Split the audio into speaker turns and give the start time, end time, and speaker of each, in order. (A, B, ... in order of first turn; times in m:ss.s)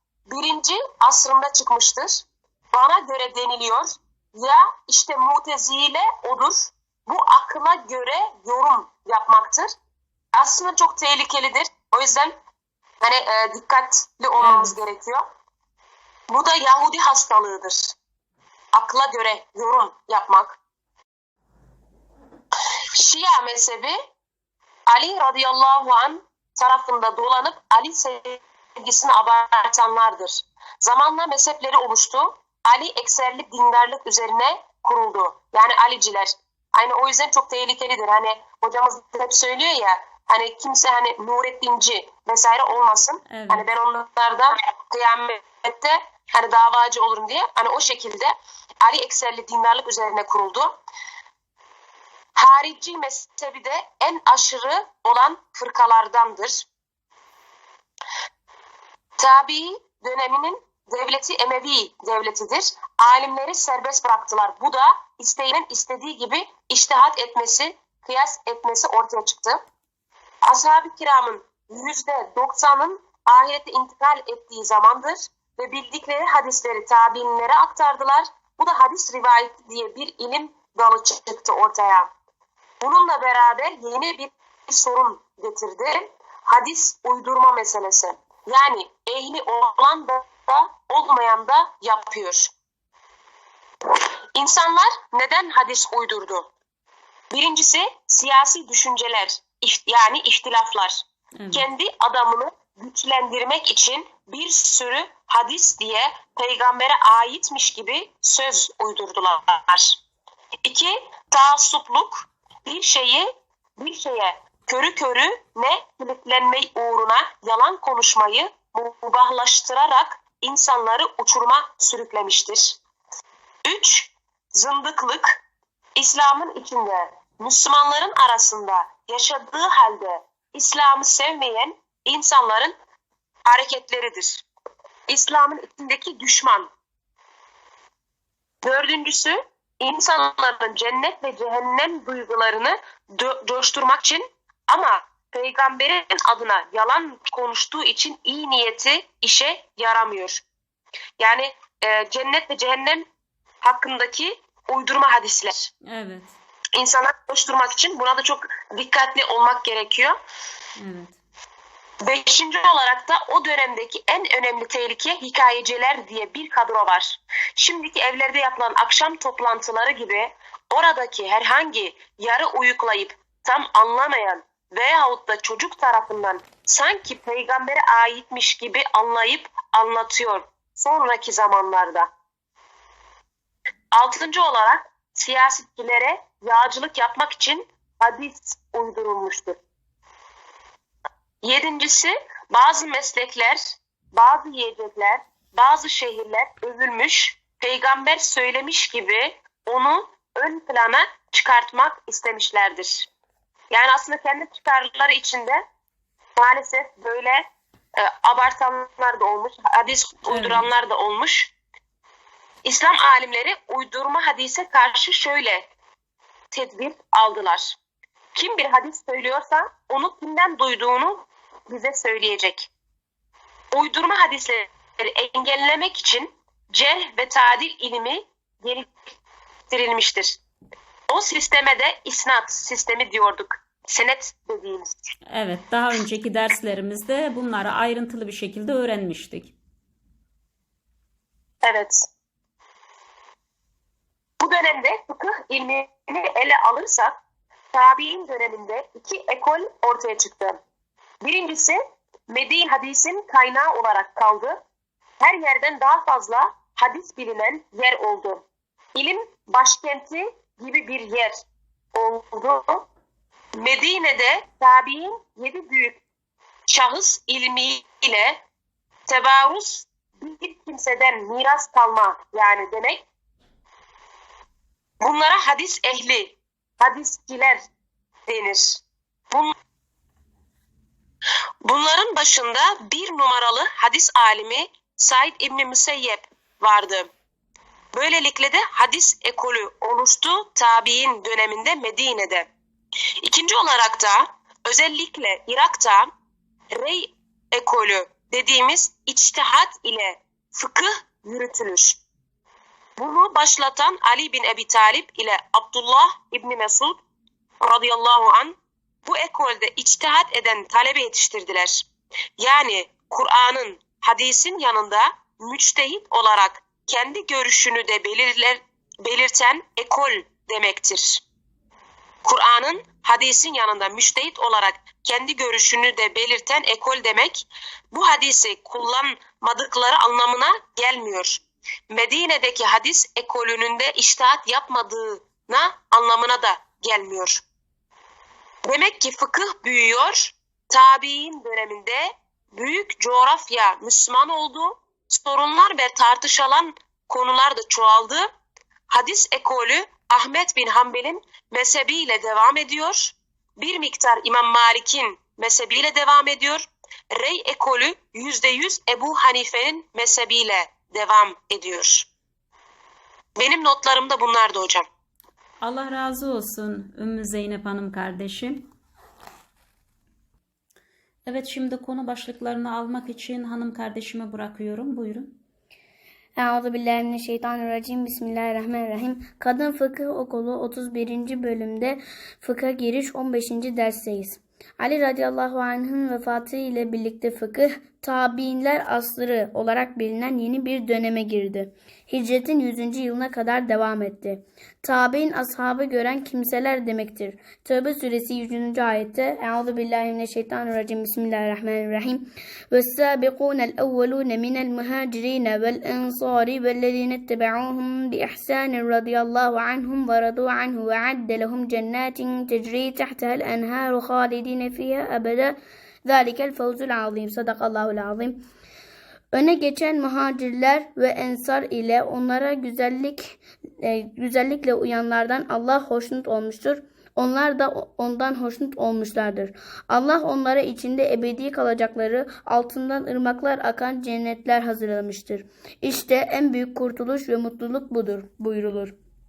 0:00.3-0:09.7 A
0:10.3-0:12.4 A
0:13.0-0:15.2 A
0:14.4-0:14.8 B
0:16.3-0:17.9 A
0:18.7-0:20.6 A
0:22.9-0:24.0 A
0:24.9-0:50.8 A
0:43.3-0:43.7 B
0:52.4-0:56.7 A
0:59.2-1:09.6 A
1:10.4-1:22.1 A
1:22.8-1:32.5 A
1:34.4-1:36.5 A
1:37.3-1:50.0 A
1:41.4-1:41.7 B
1:50.6-2:02.8 A
2:03.6-2:05.4 A
2:06.0-2:12.8 A
2:13.5-2:14.4 A
2:15.1-2:16.7 A
2:18.6-2:30.4 A
2:31.2-2:33.1 A
2:33.6-2:35.7 A
2:35.9-2:36.4 B
2:36.8-2:40.2 A
2:40.8-2:41.2 B
2:42.0-3:02.1 A
3:03.9-3:09.6 A
3:11.4-3:23.1 A
3:23.7-3:25.6 A
3:26.4-3:31.5 A
3:30.3-3:30.7 B
3:32.6-3:35.7 A
3:36.5-3:37.8 A
3:38.3-3:42.7 A
3:43.7-3:49.0 A
3:49.7-3:50.4 A
3:51.1-3:54.9 A
3:55.3-3:59.5 B
4:01.6-4:02.1 A
4:04.4-4:07.2 A
4:07.7-4:10.6 A
4:11.2-4:14.6 A
4:15.2-4:18.4 A
4:19.0-4:21.3 A
4:21.9-4:22.8 A
4:23.6-4:26.0 A
4:26.7-4:28.4 A
4:29.1-4:33.0 A
4:35.0-4:37.6 A
4:38.3-4:39.5 A
4:41.6-4:47.1 A
4:47.9-4:52.5 A
4:53.2-4:56.1 A
4:56.7-5:02.0 A
5:03.0-5:07.0 A
5:07.6-5:11.9 A
5:12.4-5:21.2 A
5:22.2-5:37.4 A
5:38.7-5:48.3 A
5:48.9-6:02.1 A
6:03.4-6:04.9 A
6:05.6-6:08.7 B
6:11.3-6:15.3 B
6:16.4-6:58.4 C
6:59.3-7:18.9 C